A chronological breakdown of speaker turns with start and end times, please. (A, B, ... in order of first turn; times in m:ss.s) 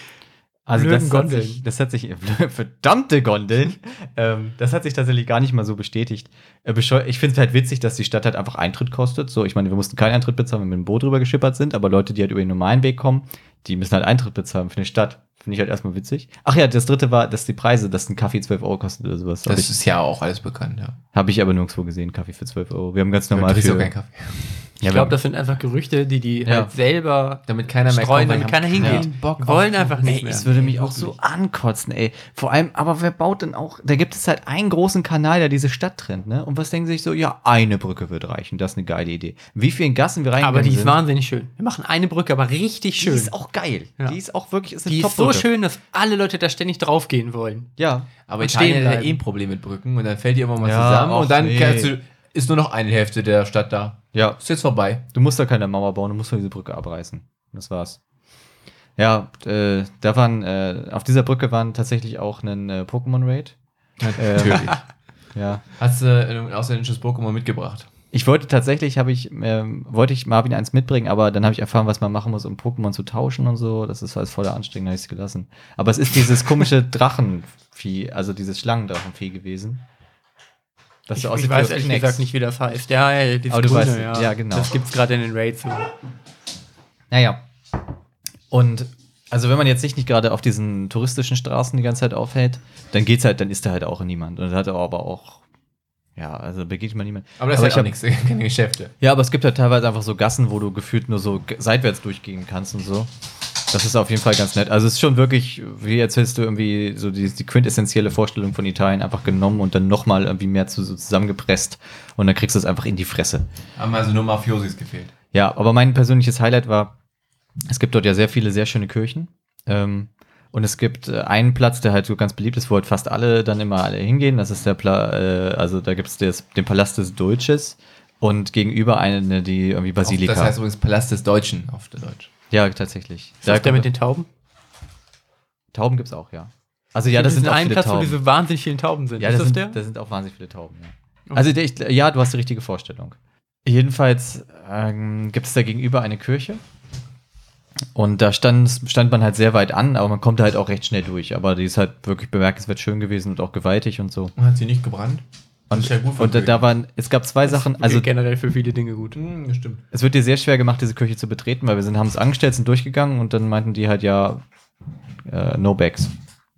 0:00.7-0:19.7 A
0:00.7-0:01.6 B
0:19.5-0:21.0 C
0:21.1-0:23.9 A
0:23.3-0:24.6 C
0:24.8-0:25.2 A
0:24.8-0:31.0 B
0:26.4-0:26.7 A
0:27.5-0:31.0 C
0:28.8-0:29.0 A
0:30.0-0:41.0 A
0:40.4-0:43.4 B
0:43.0-0:45.5 A
0:44.9-0:47.7 B
0:47.8-0:48.1 A
0:48.3-0:55.0 C
0:48.4-0:49.2 B
0:50.6-0:51.9 A
0:54.1-0:54.4 A
0:55.1-0:58.0 A
0:59.0-1:03.6 A
1:04.0-1:04.8 C
1:04.2-1:04.8 A
1:05.4-1:05.6 A
1:05.8-1:07.9 C
1:08.1-1:19.8 A
1:21.1-1:22.2 A
1:21.2-1:25.9 B
1:23.5-1:24.7 A
1:27.1-1:27.4 A
1:28.5-1:35.4 A
1:36.2-1:37.9 A
1:37.4-1:38.9 C
1:39.0-1:43.1 A
1:43.7-1:53.5 A
1:53.8-1:55.1 C
1:55.3-1:56.9 A
1:57.7-2:10.6 A
2:10.0-2:12.3 C
2:12.5-2:13.9 A
2:13.4-2:14.3 B
2:15.7-2:18.2 A
2:17.1-2:19.8 B
2:19.2-2:26.6 A
2:28.0-2:34.3 A
2:34.4-2:36.7 C
2:35.7-2:38.1 A
2:37.5-2:39.2 B
2:39.1-2:39.8 C
2:39.9-2:44.4 A
2:45.3-2:46.1 A